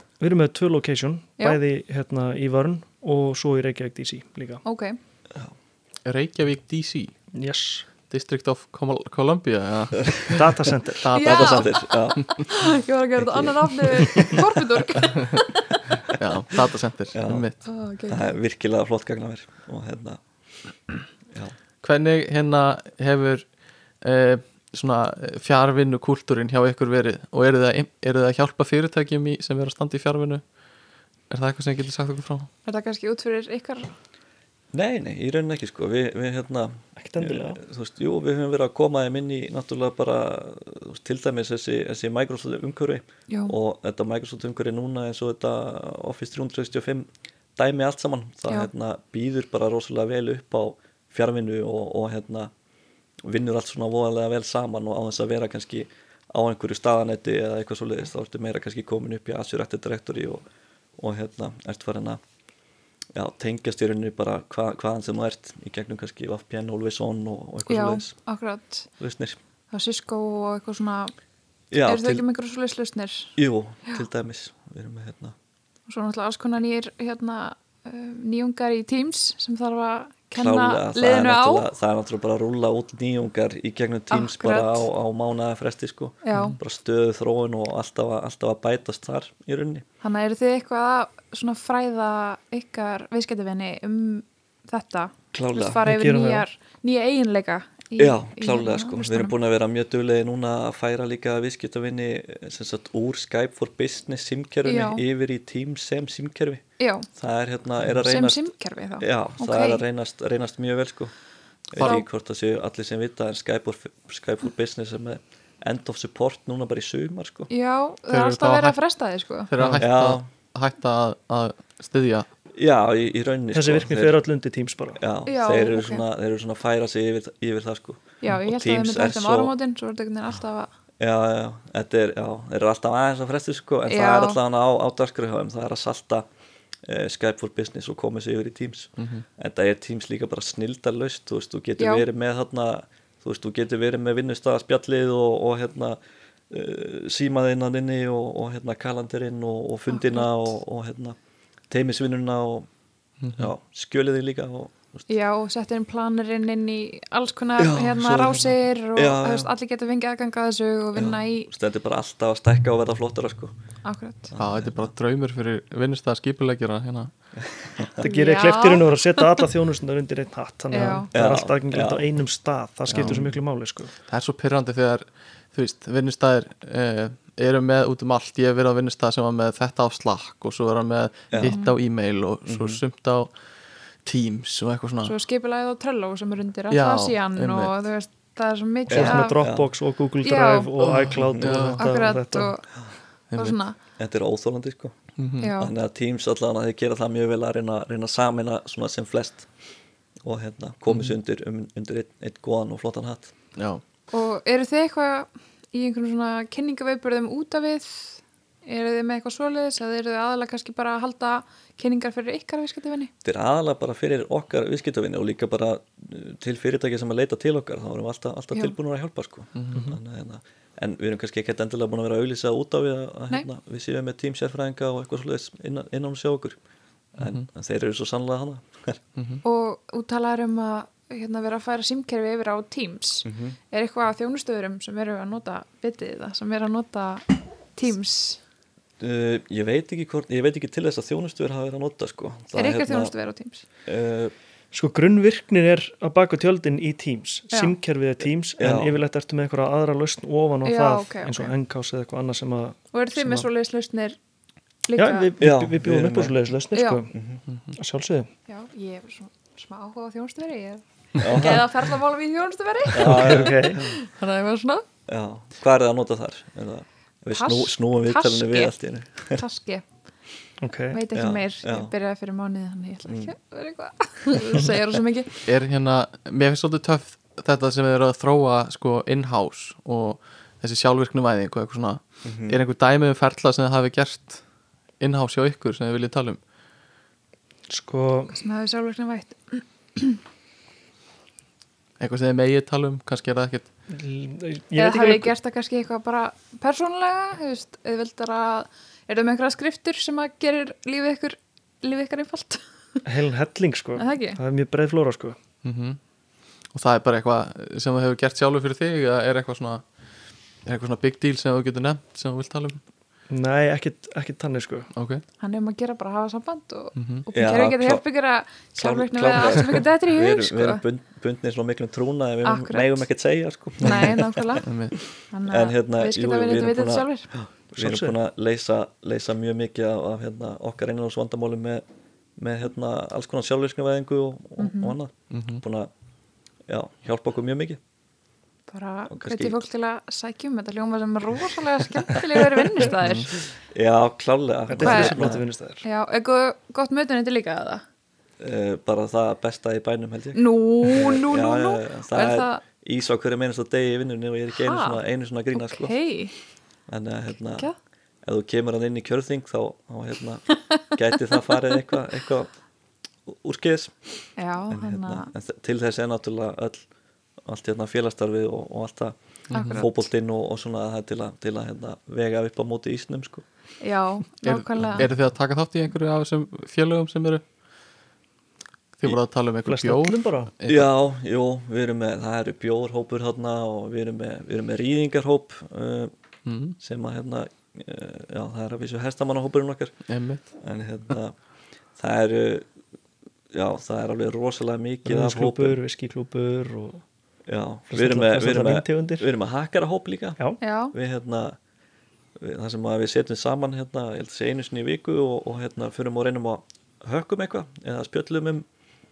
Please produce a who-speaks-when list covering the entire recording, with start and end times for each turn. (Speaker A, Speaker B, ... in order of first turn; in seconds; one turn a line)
Speaker A: 0.2-4.6
Speaker B: 4.6-5.0
Speaker C: 6.0-7.2
Speaker A: 7.3-7.9
Speaker C: 8.1-11.7
Speaker A: 10.3-11.1
Speaker B: 11.1-15.7
Speaker D: 11.2-12.5
Speaker D: 13.2-14.8
Speaker C: 16.1-17.6
Speaker D: 17.1-17.5
Speaker B: 17.6-18.3
Speaker D: 18.1-20.2
Speaker C: 21.8-23.5
Speaker C: 24.0-30.4
Speaker C: 31.3-32.5
Speaker B: 32.6-33.9
Speaker D: 34.7-52.5
Speaker A: 37.0-37.6
Speaker B: 43.3-43.5
Speaker D: 53.2-60.4
Speaker D: 61.0-62.2
Speaker D: 63.1-68.1
Speaker B: 67.7-68.9
Speaker D: 69.0-69.4
Speaker B: 69.7-71.1
Speaker D: 71.7-72.2
Speaker B: 71.8-73.3
Speaker D: 73.4-75.3
Speaker B: 75.9-81.7
Speaker D: 80.3-89.8
Speaker B: 84.1-84.9
Speaker B: 86.2-86.6
Speaker B: 90.0-99.3
Speaker D: 95.3-95.8
Speaker A: 95.8-96.5
Speaker D: 98.0-106.6
Speaker B: 104.7-105.0
Speaker B: 106.8-107.1
Speaker D: 107.2-111.1
Speaker B: 108.0-109.8
Speaker D: 111.7-117.5
Speaker C: 111.8-112.0
Speaker B: 117.5-119.5
Speaker C: 118.1-118.8
Speaker C: 119.5-122.3
Speaker D: 119.8-120.3
Speaker D: 122.5-124.2
Speaker A: 123.5-125.0
Speaker D: 125.0-129.5
Speaker B: 125.3-126.0
Speaker B: 128.2-130.7
Speaker D: 131.0-136.3
Speaker B: 133.9-134.4
Speaker D: 136.8-146.0
Speaker C: 139.0-139.2
Speaker B: 141.8-142.1
Speaker D: 146.5-151.2
Speaker B: 149.9-150.5
Speaker D: 151.7-152.7
Speaker C: 153.2-153.5
Speaker D: 153.3-155.0
Speaker B: 155.1-161.5
Speaker D: 157.6-159.5
Speaker D: 160.9-163.5
Speaker B: 163.8-164.3
Speaker D: 164.3-164.9
Speaker C: 164.4-167.1
Speaker D: 167.4-168.0
Speaker A: 168.0-173.9
Speaker B: 168.0-169.4
Speaker B: 170.7-171.1
Speaker D: 171.1-172.1
Speaker C: 172.9-173.2
Speaker D: 172.9-173.2
Speaker C: 174.1-183.3
Speaker D: 181.3-181.6
Speaker B: 181.4-181.8
Speaker D: 182.5-182.8
Speaker C: 184.0-185.2
Speaker B: 185.0-189.4
Speaker C: 186.7-187.7
Speaker D: 188.9-189.7
Speaker A: 188.9-192.5
Speaker B: 190.2-190.7
Speaker C: 190.8-192.1
Speaker D: 191.3-191.5
Speaker B: 191.8-192.8
Speaker C: 193.3-193.6
Speaker B: 193.3-193.8
Speaker D: 194.0-195.0
Speaker C: 195.2-195.5
Speaker B: 195.4-195.7
Speaker D: 195.5-199.5
Speaker D: 200.2-203.3
Speaker C: 203.6-203.8
Speaker B: 204.1-213.1
Speaker D: 213.2-226.6
Speaker C: 219.6-219.8
Speaker D: 227.2-229.0
Speaker C: 227.2-227.5
Speaker C: 229.2-229.4
Speaker B: 229.4-238.4
Speaker D: 233.2-233.6
Speaker D: 239.0-243.1
Speaker B: 242.6-243.6
Speaker D: 243.9-244.3
Speaker A: 244.7-253.5
Speaker D: 248.6-249.0
Speaker B: 250.6-251.5
Speaker B: 252.9-254.2
Speaker B: 254.9-255.3
Speaker A: 255.0-257.1
Speaker D: 255.4-256.4
Speaker B: 256.7-257.0
Speaker D: 257.1-257.4
Speaker A: 257.7-258.3
Speaker B: 258.5-264.9
Speaker D: 261.2-261.8
Speaker D: 262.9-264.0
Speaker A: 262.9-263.8
Speaker D: 265.1-269.4
Speaker B: 267.4-268.7
Speaker B: 269.3-269.8
Speaker A: 270.6-271.0
Speaker B: 270.9-275.4
Speaker D: 271.1-271.9
Speaker D: 273.1-273.3
Speaker C: 275.4-284.4
Speaker D: 282.2-282.6
Speaker C: 285.0-286.4
Speaker A: 287.7-288.4
Speaker B: 288.3-290.2
Speaker C: 292.0-293.7
Speaker A: 293.9-295.3
Speaker B: 294.8-302.6
Speaker A: 303.1-305.4
Speaker B: 304.0-304.4
Speaker C: 305.6-306.0
Speaker C: 306.7-309.8
Speaker C: 310.6-312.8
Speaker A: 313.3-314.9
Speaker C: 314.9-315.2
Speaker B: 315.4-320.8
Speaker C: 316.9-317.3
Speaker D: 317.3-318.0
Speaker D: 318.8-324.6
Speaker B: 322.4-323.1
Speaker B: 323.8-324.7
Speaker C: 324.6-325.0
Speaker B: 325.3-327.3
Speaker D: 325.5-331.8
Speaker A: 327.7-328.2
Speaker D: 332.4-335.9
Speaker B: 334.6-335.0
Speaker C: 335.3-335.6
Speaker D: 336.7-337.8
Speaker B: 338.7-343.5
Speaker D: 339.1-339.6
Speaker D: 342.1-342.8
Speaker C: 343.0-343.3
Speaker D: 343.7-345.4
Speaker A: 344.7-345.9
Speaker B: 344.8-347.8
Speaker D: 348.4-355.9
Speaker B: 350.4-352.6
Speaker B: 354.5-355.0
Speaker B: 355.5-356.3
Speaker D: 356.9-357.7
Speaker D: 358.2-362.5
Speaker B: 360.5-361.6
Speaker D: 363.3-363.9
Speaker B: 364.4-365.3
Speaker D: 364.7-366.9
Speaker D: 367.4-369.1
Speaker C: 369.5-369.9
Speaker B: 369.5-369.9
Speaker D: 369.7-373.4
Speaker B: 373.8-375.1
Speaker C: 374.4-377.4
Speaker D: 374.8-375.1
Speaker C: 379.0-380.9
Speaker A: 379.6-380.5
Speaker D: 380.7-386.1
Speaker C: 386.4-386.8
Speaker D: 386.8-389.9
Speaker C: 390.1-390.5
Speaker D: 390.6-391.4
Speaker D: 392.0-392.7
Speaker D: 393.5-395.8
Speaker A: 395.1-397.0
Speaker D: 397.5-400.4
Speaker A: 397.9-399.3
Speaker B: 400.6-400.9
Speaker D: 400.9-401.6
Speaker D: 402.4-408.7